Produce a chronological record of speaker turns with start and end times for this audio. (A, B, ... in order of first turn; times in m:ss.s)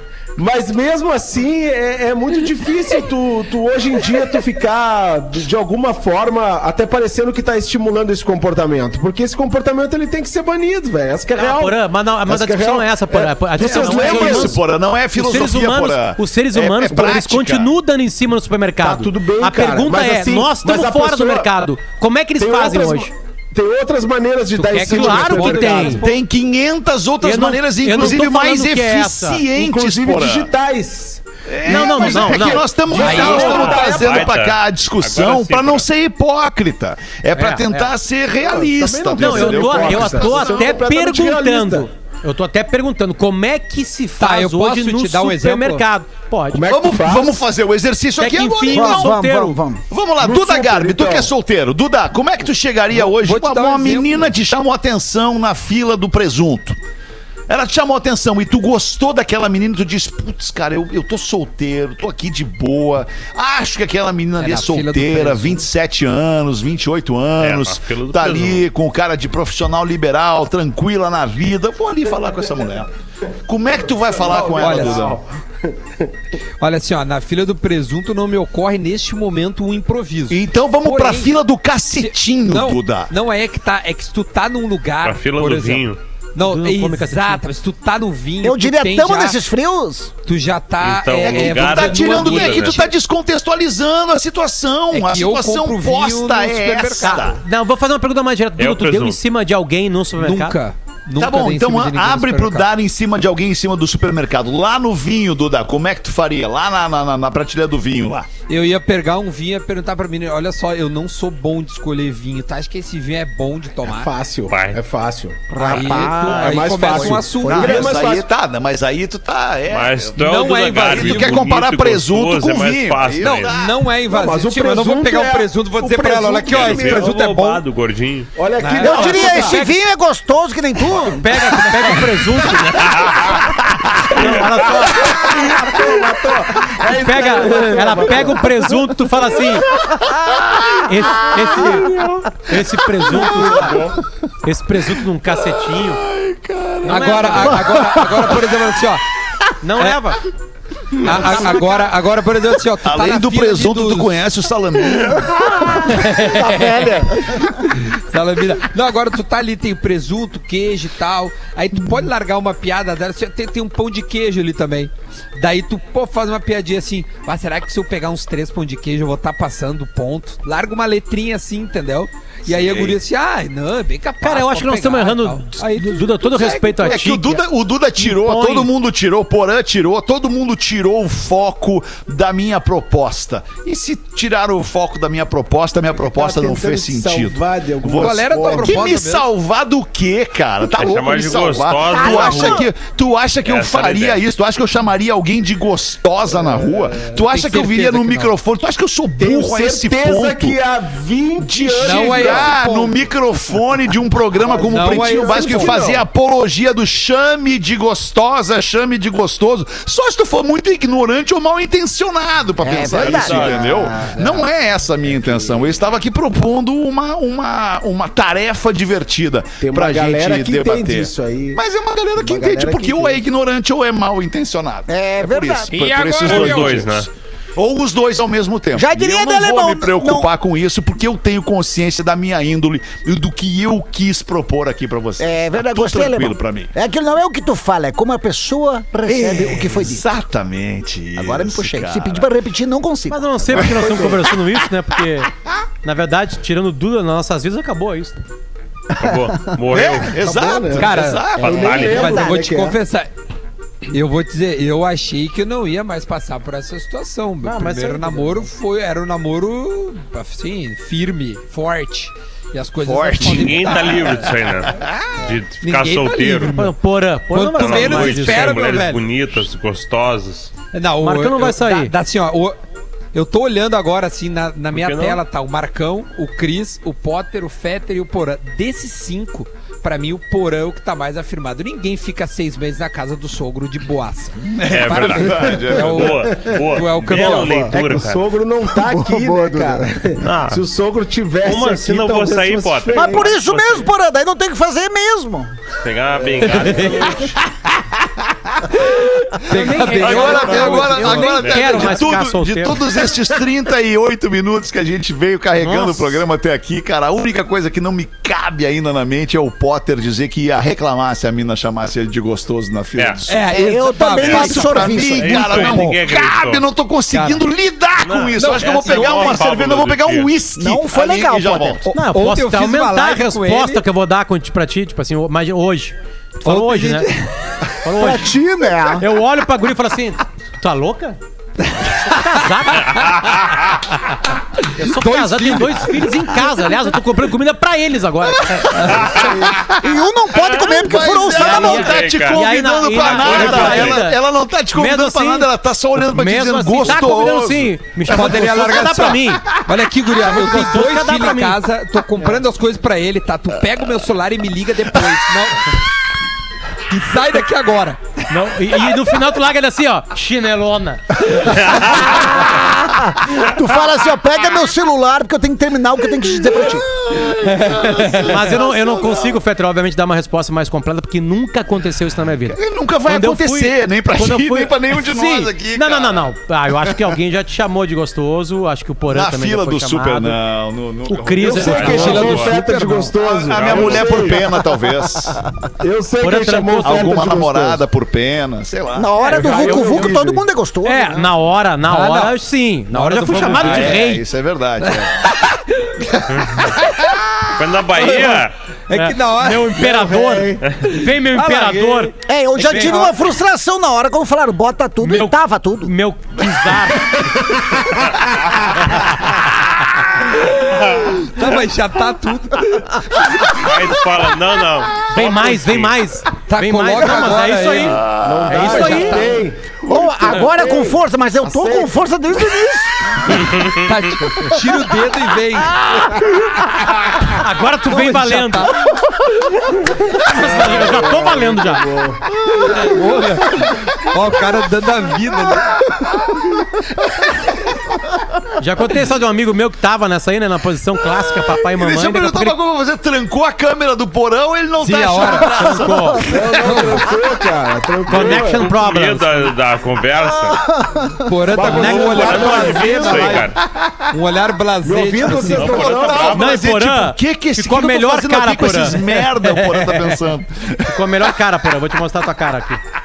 0:00.4-0:14.6 A
0:11.4-0:14.6 B
0:13.5-0:17.7 C
0:15.1-0:23.1 B
0:18.8-0:21.5 A
0:22.4-0:26.1 A
0:24.6-0:26.2 D
0:24.7-0:26.0 B
0:26.0-0:30.5 C
0:27.2-0:29.4 B
0:29.5-0:34.4 A
0:31.5-0:40.8 C
0:31.6-0:32.7 B
0:32.9-0:34.0 D
0:33.0-0:35.9 E
0:37.3-0:37.9 B
0:38.5-0:41.9 A
0:39.1-0:46.6 B
0:44.2-0:45.8 D
0:46.5-0:47.5 A
0:46.7-0:49.1 C
0:48.2-0:49.6 B
0:48.7-0:49.8 F
0:49.9-0:56.8 C
0:50.2-0:51.3 A
0:52.9-0:54.3 D
0:57.5-1:12.9 C
1:04.4-1:05.6 D
1:07.4-1:08.7 E
1:13.5-1:15.2 C
1:14.2-1:15.7 A
1:14.4-1:15.2 D
1:16.6-1:21.3 D
1:20.3-1:23.1 C
1:21.9-1:29.4 D
1:25.0-1:26.0 E
1:26.4-1:27.4 B
1:28.4-1:30.1 F
1:30.2-1:32.9 D
1:30.8-1:32.9 E
1:31.2-1:37.4 C
1:34.9-1:37.4 D
1:37.0-1:40.6 B
1:38.6-1:39.2 E
1:40.2-1:42.7 D
1:41.2-1:48.3 C
1:48.5-1:54.1 D
1:53.9-1:58.3 A
1:54.5-1:54.8 E
1:55.5-1:57.9 F
1:55.6-1:57.9 D
1:57.5-2:00.2 C
1:59.7-2:03.6 E
2:00.2-2:01.6 D
2:00.8-2:03.7 C
2:03.3-2:07.6 D
2:04.1-2:07.2 A
2:06.4-2:08.3 E
2:08.4-2:09.7 A
2:08.6-2:09.6 D
2:08.7-2:09.7 B
2:08.7-2:11.3 F
2:11.2-2:12.7 B
2:11.8-2:12.6 A
2:12.8-2:13.3 E
2:14.1-2:15.1 B
2:15.0-2:18.9 A
2:16.9-2:19.6 B
2:20.3-2:21.6 C
2:20.8-2:23.8 B
2:23.0-2:23.7 C
2:24.4-2:26.0 B
2:25.4-2:28.4 C
2:26.8-2:27.7 B
2:26.9-2:29.0 D
2:29.6-2:30.2 B
2:31.0-2:31.5 C
2:31.0-2:34.2 D
2:32.8-2:36.0 C
2:35.9-2:36.7 B
2:36.4-2:37.5 F
2:38.1-2:57.0 D
2:52.5-2:52.9 C
2:54.2-2:57.4 B
2:56.3-3:20.6 C
2:58.0-2:58.7 B
3:06.0-3:08.8 A
3:07.9-3:09.3 D
3:10.7-3:12.6 E
3:11.9-3:12.7 F
3:13.4-3:14.2 E
3:16.3-3:17.1 A
3:17.1-3:18.3 D
3:19.2-3:23.0 A
3:21.4-3:47.0 C
3:21.8-3:22.5 D
3:24.4-3:26.1 A
3:24.6-3:25.8 D
3:32.6-3:34.2 F
3:32.9-3:33.9 E
3:35.0-3:35.7 A
3:39.6-3:41.6 A
3:42.2-3:43.2 A
3:44.9-3:45.7 F
3:45.7-3:46.9 D
3:45.8-3:47.1 E
3:47.6-3:56.7 C
3:48.7-3:50.3 F
3:55.2-4:00.1 F
3:59.0-4:02.3 C
4:01.2-4:04.1 F
4:03.1-4:05.3 B
4:05.8-4:08.2 B
4:09.0-4:10.2 E
4:09.7-4:11.8 C
4:10.2-4:12.8 A
4:10.7-4:13.1 D
4:11.4-4:12.2 E
4:11.8-4:12.4 F
4:13.9-4:24.5 D
4:17.4-4:18.5 B
4:22.8-4:23.8 C
4:23.2-4:26.6 E
4:24.8-4:25.2 C
4:25.6-4:26.7 D
4:26.5-4:29.0 B
4:27.3-4:29.0 D
4:27.5-4:30.5 E
4:30.7-4:32.6 D
4:31.0-4:31.9 B
4:33.1-4:47.8 D
4:34.7-4:35.2 E
4:44.4-4:46.1 C
4:44.7-4:48.2 E
4:46.0-4:53.3 A
4:48.8-4:49.9 F
4:50.2-4:50.6 E
4:51.4-4:53.9 E
4:52.9-4:55.5 F
4:55.8-4:57.3 E
4:56.5-4:57.0 B
4:59.4-5:02.9 B
4:59.5-5:01.6 D
4:59.7-5:21.9 C
5:01.4-5:01.9 E
5:05.6-5:06.2 B
5:13.0-5:13.2 E
5:13.3-5:15.0 D
5:13.5-5:16.0 F
5:15.1-5:16.7 E
5:17.1-5:17.4 D
5:18.0-5:20.3 E
5:18.4-5:19.5 D
5:20.6-5:21.9 F
5:21.9-5:27.1 B
5:22.1-5:23.8 D
5:26.4-5:27.3 D
5:27.8-5:28.3 B
5:27.9-5:29.0 F
5:29.0-5:31.2 B
5:32.0-5:33.4 B
5:33.0-5:33.4 E
5:34.8-5:38.6 B
5:34.8-5:36.0 D
5:38.5-5:38.9 C
5:38.8-5:39.1 D
5:39.1-5:42.0 F
5:39.1-5:39.5 A
5:40.4-5:44.0 E
5:40.7-5:48.4 C
5:41.3-5:44.2 B
5:44.7-5:49.5 B
5:48.0-5:55.7 D
5:50.2-5:51.6 B
5:56.9-5:58.1 D
5:58.3-6:01.5 B
6:01.9-6:06.9 F
6:06.7-6:09.4 C
6:07.8-6:20.4 B
6:12.5-6:16.2 C
6:19.1-6:22.0 C
6:21.1-6:22.5 B
6:21.4-6:23.1 D
6:21.4-6:25.2 A
6:21.5-6:22.6 E
6:23.3-6:25.4 C
6:23.5-6:24.3 E
6:25.8-6:27.8 A
6:26.2-6:27.4 B
6:26.8-6:29.1 C
6:28.9-6:31.3 F
6:29.2-6:30.3 B
6:29.2-6:30.4 A
6:30.8-6:34.2 B
6:31.9-6:32.3 D
6:32.9-6:34.0 D
6:33.5-6:35.3 C
6:34.8-6:35.9 D
6:36.3-6:36.6 E
6:36.6-6:36.9 D
6:37.6-6:38.5 E
6:38.0-6:40.1 D
6:38.9-6:42.1 B
6:39.8-6:40.6 A
6:41.3-6:43.2 D
6:42.2-6:45.9 F
6:45.0-6:47.3 B
6:50.7-6:51.1 E
6:51.3-6:52.8 D
6:53.5-6:56.0 E
6:55.1-6:59.4 B
6:56.5-6:59.5 D
6:57.9-6:58.9 C
6:58.5-7:02.0 A
6:59.9-7:03.2 F
7:03.5-7:04.0 E
7:03.8-7:06.1 D
7:07.2-7:08.7 B
7:07.9-7:08.8 D
7:10.2-7:11.9 B
7:10.3-7:12.9 A
7:12.3-7:12.6 C
7:12.9-7:15.7 D
7:18.6-7:22.6 B
7:21.3-7:26.9 C
7:24.8-7:25.5 D
7:25.3-7:26.2 B
7:26.3-7:28.7 A
7:26.6-7:27.0 D
7:28.1-7:29.5 B
7:28.1-7:30.6 E
7:31.2-7:33.5 D
7:31.5-7:33.4 A
7:31.6-7:33.6 E
7:31.7-7:32.8 B
7:33.4-7:34.1 C
7:34.1-7:35.9 D
7:34.8-7:36.4 A
7:35.4-7:36.6 E
7:35.7-7:40.9 C
7:36.3-7:39.9 B
7:40.8-7:42.8 B